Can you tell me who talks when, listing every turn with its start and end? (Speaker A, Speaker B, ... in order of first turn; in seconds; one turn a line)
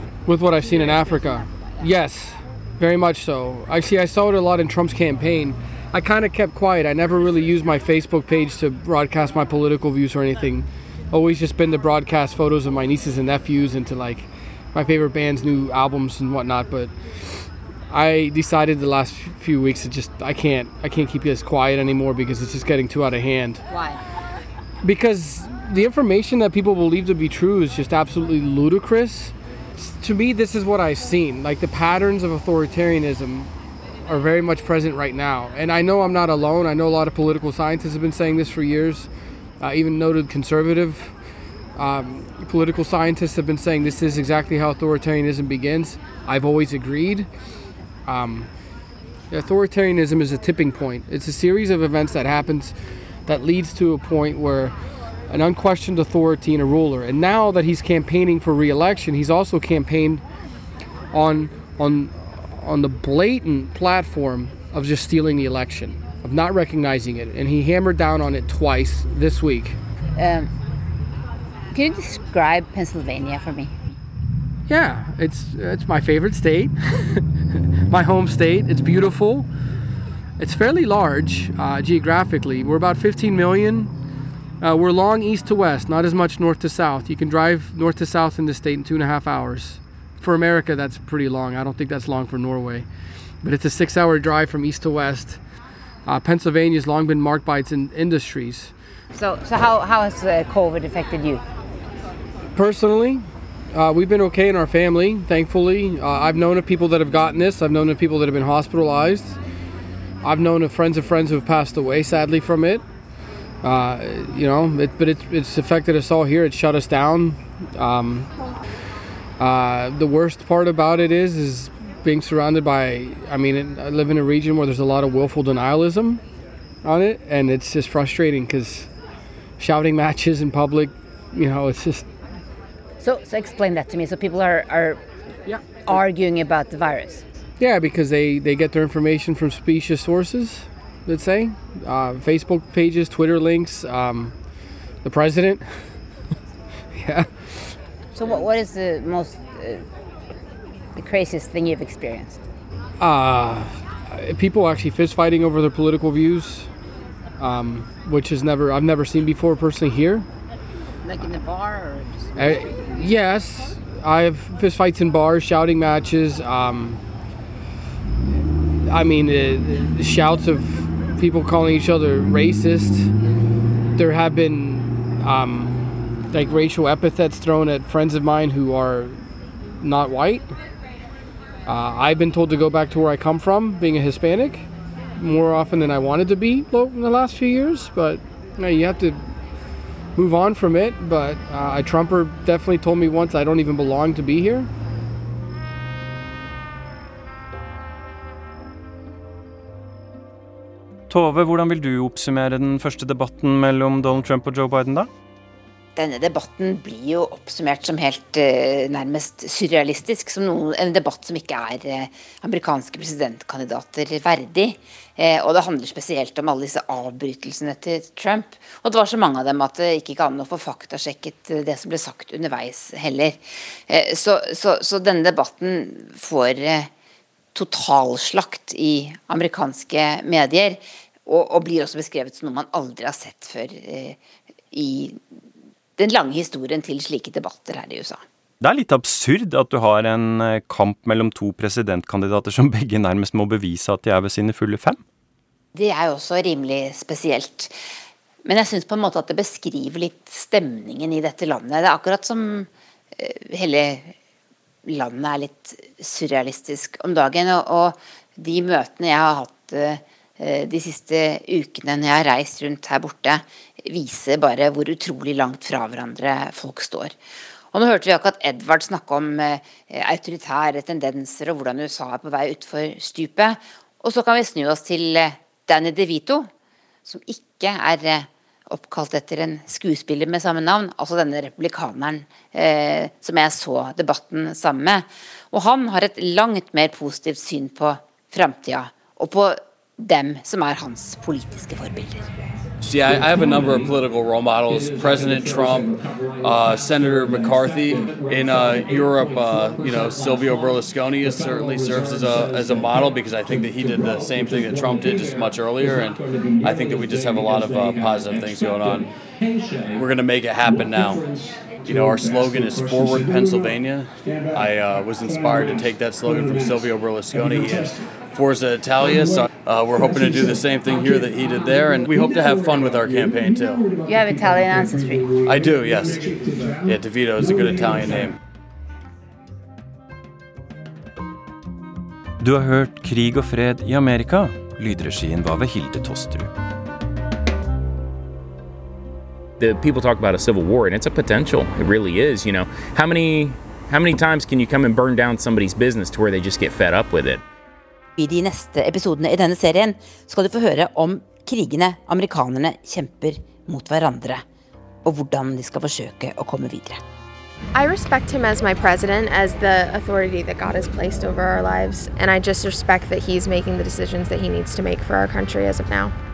Speaker A: 0.3-23.6
Speaker B: 0.7-1.8
Speaker B: 23.7-24.0
Speaker A: 24.8-33.5
Speaker A: 34.1-39.1
Speaker A: 39.6-41.2
Speaker A: 41.8-47.3
Speaker A: 48.1-48.5
Speaker A: 49.3-54.7
Speaker A: 55.3-60.2
Speaker A: 61.1-69.8
Speaker B: 70.2-70.5
Speaker B: 71.7-73.7
Speaker A: 74.7-77.2
Speaker A: 77.9-79.5
Speaker A: 80.4-83.9
Speaker A: 84.6-92.9
Speaker A: 93.4-95.4
Speaker A: 96.1-98.7
Speaker B: 99.1-101.4
Speaker A: 102.5-109.4
Speaker A: 110.2-112.8
Speaker A: 113.6-118.3
Speaker A: 119.4-126.2
Speaker A: 126.8-128.9
Speaker A: 129.6-132.1
Speaker B: 133.0-135.0
Speaker B: 135.8-137.2
Speaker A: 137.6-144.3
Speaker A: 145.0-145.7
Speaker A: 147.0-147.8
Speaker B: 148.1-149.9
Speaker B: 150.9-152.4
Speaker A: 153.0-156.7
Speaker A: 157.4-160.3
Speaker B: 161.0-162.3
Speaker A: 162.4-167.0
Speaker A: 168.9-173.1
Speaker A: 174.0-175.8
Speaker A: 176.3-179.2
Speaker A: 179.8-180.5
Speaker A: 181.7-184.7
Speaker A: 185.2-189.2
Speaker A: 190.2-194.7
Speaker C: 201.1-205.1
Speaker B: 206.0-226.9
Speaker B: 227.6-234.2
Speaker B: 234.7-235.2
Speaker B: 236.0-238.2
Speaker C: 238.6-245.0
Speaker B: 245.8-247.8
Speaker B: 248.4-254.1
Speaker B: 254.9-267.1
Speaker B: 267.7-276.5
Speaker B: 277.1-292.3
Speaker D: 292.8-309.1
Speaker E: 298.1-298.8
Speaker D: 309.9-311.3
Speaker D: 311.8-323.9
Speaker B: 324.0-325.4
Speaker D: 325.4-326.2
Speaker D: 326.9-328.4
Speaker C: 332.4-336.5
Speaker E: 339.6-347.4
Speaker B: 348.2-354.4
Speaker B: 355.1-357.0
Speaker F: 357.7-366.1